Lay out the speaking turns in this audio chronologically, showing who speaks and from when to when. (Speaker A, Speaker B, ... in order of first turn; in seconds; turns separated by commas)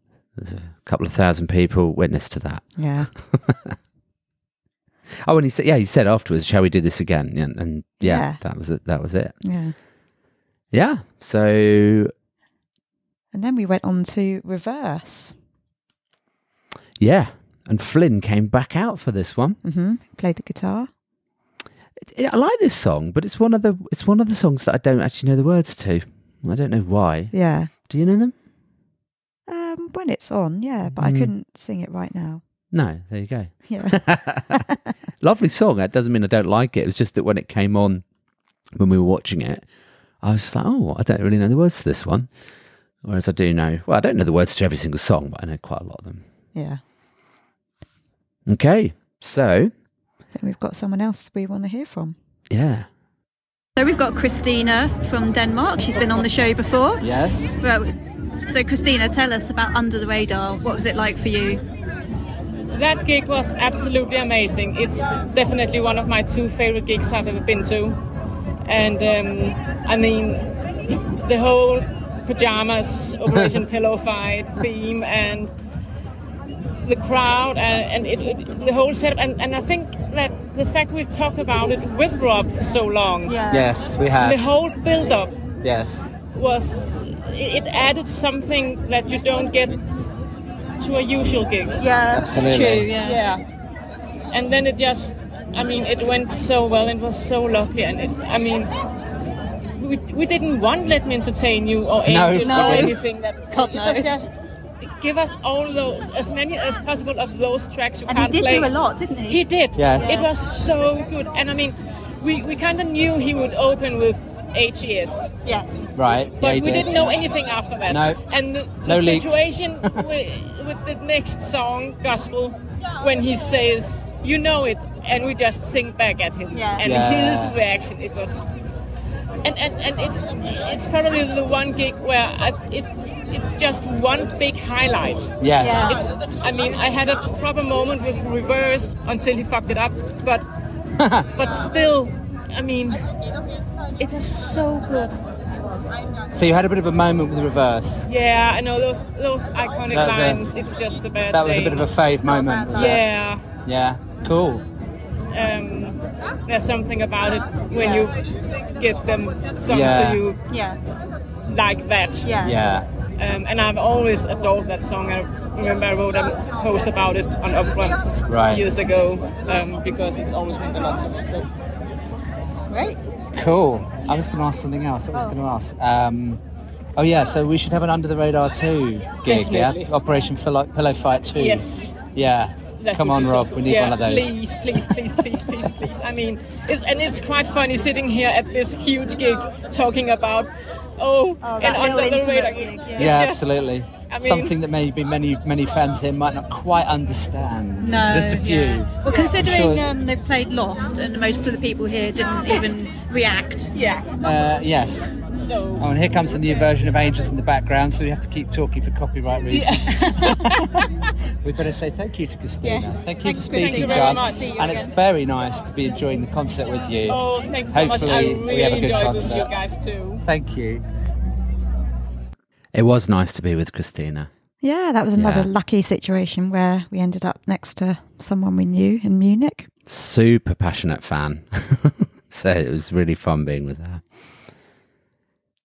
Speaker A: 0.4-3.7, Speaker B: 2.8-3.1, Speaker A: 5.2-9.4, Speaker B: 8.0-8.4, Speaker B: 9.4-9.7, Speaker A: 10.7-12.1, Speaker B: 13.3-15.4, Speaker A: 17.0-19.6, Speaker B: 19.6-20.9, Speaker A: 22.0-28.3, Speaker B: 27.3-27.7, Speaker B: 29.5-32.4, Speaker A: 30.9-31.3, Speaker A: 32.7-34.6, Speaker B: 33.7-34.8, Speaker A: 35.2-38.0, Speaker A: 38.8-39.6, Speaker A: 40.2-42.3, Speaker A: 43.0-46.2, Speaker B: 46.5-46.8, Speaker A: 48.5-49.7, Speaker B: 50.3-52.1, Speaker A: 52.5-52.9, Speaker C: 53.8-57.0, Speaker D: 57.0-57.5, Speaker C: 57.6-61.6, Speaker E: 62.7-68.0, Speaker E: 68.7-70.5, Speaker E: 71.2-75.5, Speaker E: 76.8-83.4, Speaker C: 83.2-83.7, Speaker D: 83.5-84.5, Speaker E: 84.2-85.4, Speaker D: 85.6-86.1, Speaker E: 86.3-89.8, Speaker E: 90.8-91.8, Speaker C: 91.8-93.2, Speaker D: 92.1-92.9, Speaker E: 93.0-93.4, Speaker E: 94.3-98.7, Speaker E: 99.8-104.3, Speaker D: 102.0-103.0, Speaker C: 102.4-102.9, Speaker C: 103.5-104.1, Speaker E: 105.0-108.7, Speaker C: 108.0-110.3, Speaker E: 109.3-115.3, Speaker D: 109.8-110.2, Speaker C: 115.4-115.9, Speaker D: 115.9-117.2, Speaker E: 116.4-128.4, Speaker D: 117.9-118.2, Speaker D: 118.8-119.5, Speaker C: 126.5-126.8, Speaker D: 126.8-127.6, Speaker E: 129.4-140.4, Speaker D: 135.4-135.9, Speaker C: 135.6-136.0, Speaker D: 141.0-141.3, Speaker E: 141.3-143.0, Speaker E: 144.0-145.2, Speaker D: 146.3-148.1, Speaker E: 148.1-151.9, Speaker D: 149.9-150.4, Speaker D: 151.3-153.0, Speaker C: 152.3-152.8, Speaker E: 152.7-153.4, Speaker D: 153.6-154.6, Speaker E: 155.3-158.2, Speaker C: 157.8-158.1, Speaker E: 158.8-160.4, Speaker D: 159.7-160.2, Speaker C: 160.5-160.8, Speaker E: 161.5-162.3, Speaker C: 162.2-162.6, Speaker D: 162.4-162.9, Speaker E: 163.2-171.5, Speaker D: 168.3-168.6, Speaker D: 173.3-176.4, Speaker D: 176.9-184.3, Speaker E: 179.2-179.9, Speaker E: 181.3-182.0, Speaker E: 182.8-193.4, Speaker C: 191.4-193.1, Speaker D: 192.9-199.8, Speaker E: 194.0-194.6, Speaker C: 197.8-203.7, Speaker E: 203.7-204.1, Speaker D: 204.2-205.2, Speaker E: 205.3-205.9, Speaker D: 205.8-210.6, Speaker E: 209.5-210.8, Speaker D: 211.4-219.5, Speaker C: 212.6-215.0, Speaker E: 213.4-214.6, Speaker E: 217.1-220.2, Speaker D: 220.2-220.8, Speaker A: 222.7-224.3, Speaker B: 224.6-229.7, Speaker A: 225.2-225.5, Speaker A: 229.8-234.0